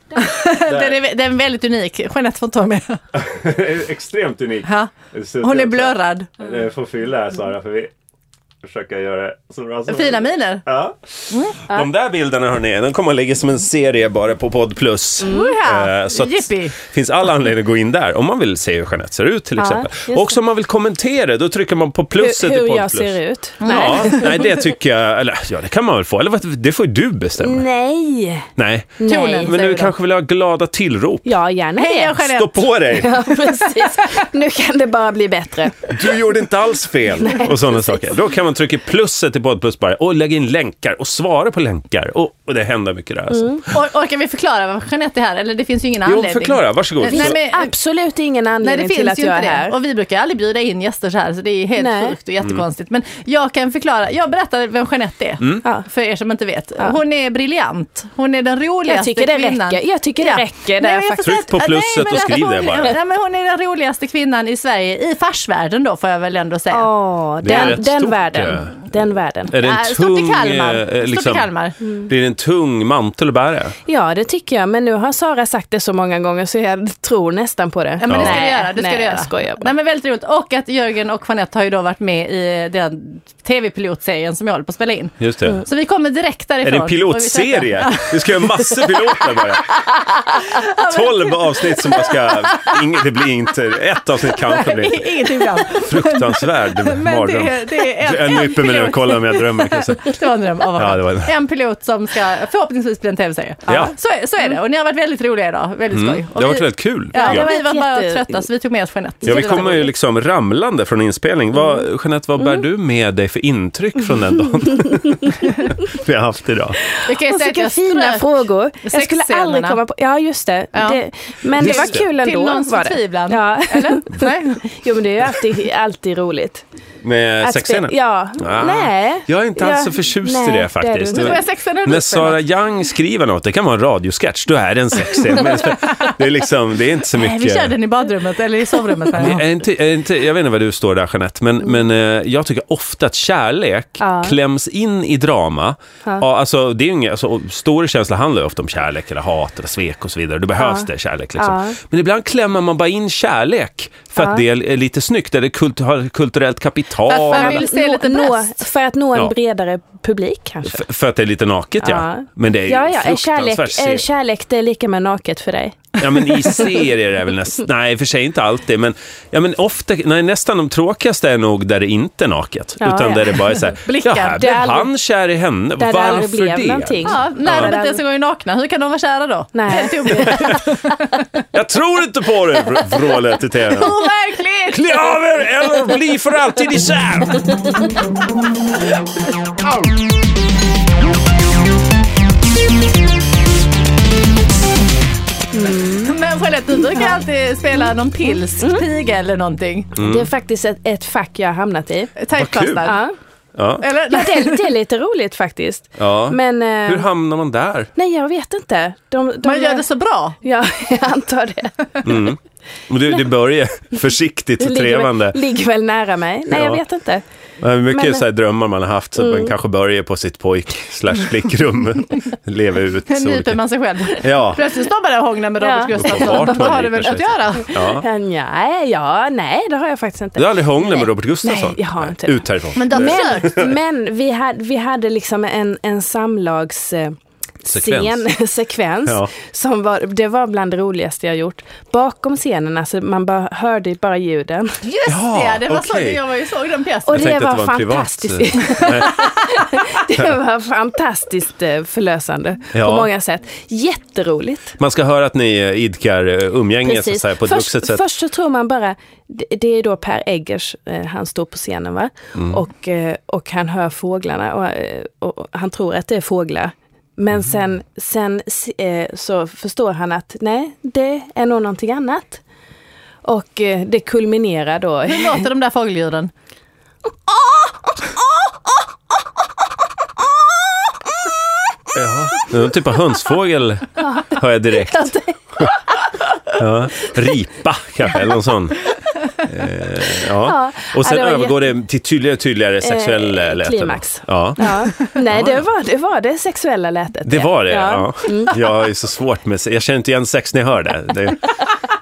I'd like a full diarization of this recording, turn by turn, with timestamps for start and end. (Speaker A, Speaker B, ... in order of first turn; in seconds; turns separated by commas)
Speaker A: 0.1-3.0, Speaker B: 0.6-1.0, Speaker B: 3.1-7.9, Speaker A: 4.7-6.4, Speaker B: 8.6-27.6, Speaker A: 9.9-10.6, Speaker A: 11.3-11.6, Speaker C: 15.2-15.6, Speaker A: 15.3-16.8, Speaker C: 19.6-20.4, Speaker C: 22.2-24.4, Speaker A: 23.6-24.3, Speaker C: 27.4-28.5, Speaker B: 28.6-31.3, Speaker C: 29.0-29.6, Speaker A: 29.1-29.9, Speaker C: 31.2-32.3, Speaker A: 31.8-32.6, Speaker B: 32.2-33.2, Speaker C: 32.9-36.0, Speaker A: 33.5-34.0, Speaker B: 35.9-43.8, Speaker C: 37.2-37.8, Speaker C: 43.3-43.6, Speaker A: 43.7-47.7, Speaker B: 46.0-47.4, Speaker C: 47.1-49.8, Speaker A: 48.6-66.9, Speaker C: 51.8-52.2, Speaker C: 58.9-62.3, Speaker B: 61.2-63.0, Speaker C: 66.7-69.5, Speaker B: 67.4-68.8, Speaker A: 67.5-67.8, Speaker B: 69.5-71.5, Speaker A: 69.6-71.8, Speaker B: 72.1-73.8, Speaker C: 73.9-79.7, Speaker A: 78.0-89.5, Speaker B: 78.1-78.4, Speaker B: 85.2-85.6, Speaker B: 86.6-89.8, Speaker A: 90.3-92.8, Speaker B: 90.8-100.2, Speaker A: 94.2-109.9, Speaker B: 100.8-101.4, Speaker C: 103.7-104.0, Speaker B: 103.7-104.0, Speaker B: 105.9-107.5, Speaker C: 107.2-108.4, Speaker B: 109.2-116.8, Speaker C: 109.3-109.7, Speaker C: 115.0-115.7, Speaker C: 116.8-126.6, Speaker A: 117.1-119.8, Speaker A: 121.6-124.6, Speaker B: 121.6-122.1, Speaker B: 127.0-137.8, Speaker C: 127.4-131.4, Speaker A: 131.1-132.4, Speaker A: 137.1-139.5, Speaker B: 139.2-157.7, Speaker C: 144.0-144.3, Speaker C: 150.6-151.8, Speaker C: 154.2-154.4, Speaker A: 157.1-158.6, Speaker C: 157.3-160.8, Speaker B: 160.7-164.1, Speaker C: 161.8-166.7, Speaker B: 166.0-177.8, Speaker C: 172.8-173.7, Speaker A: 173.9-174.6, Speaker C: 174.4-174.9, Speaker C: 175.8-178.0, Speaker A: 177.0-181.2, Speaker C: 179.5-180.6, Speaker B: 180.2-180.6, Speaker B: 181.5-184.0, Speaker A: 183.7-185.0, Speaker B: 184.7-187.7, Speaker C: 195.5-196.2, Speaker A: 196.0-199.9, Speaker C: 196.9-197.2, Speaker C: 198.3-198.8, Speaker B: 200.0-200.3, Speaker C: 200.0-202.1, Speaker A: 202.2-203.0, Speaker B: 202.3-202.9, Speaker C: 202.8-203.2, Speaker B: 203.6-203.8, Speaker A: 203.8-204.7, Speaker C: 204.1-207.1, Speaker B: 206.0-207.9, Speaker C: 208.0-209.8, Speaker A: 209.4-210.4, Speaker C: 210.4-212.1, Speaker B: 212.0-215.4, Speaker C: 214.6-217.2, Speaker B: 216.5-216.8, Speaker B: 217.6-223.6, Speaker C: 217.9-218.2, Speaker C: 219.2-219.5, Speaker A: 223.1-227.8, Speaker B: 224.1-224.7, Speaker C: 225.6-226.7, Speaker B: 225.9-228.1, Speaker C: 227.7-244.8, Speaker B: 230.4-233.7, Speaker A: 232.8-233.7, Speaker B: 237.7-238.3, Speaker B: 239.1-239.3, Speaker A: 244.8-247.3, Speaker B: 245.1-246.2, Speaker C: 247.1-254.8, Speaker B: 247.1-249.3, Speaker B: 252.7-253.1, Speaker B: 254.8-258.0, Speaker C: 256.8-272.4, Speaker B: 262.4-262.6, Speaker C: 273.2-275.4, Speaker A: 275.1-276.3, Speaker C: 277.3-278.4, Speaker B: 281.9-285.7, Speaker C: 284.0-285.9, Speaker B: 286.5-288.8, Speaker B: 289.4-295.6, Speaker C: 290.2-291.6, Speaker C: 292.8-298.6, Speaker B: 297.3-301.6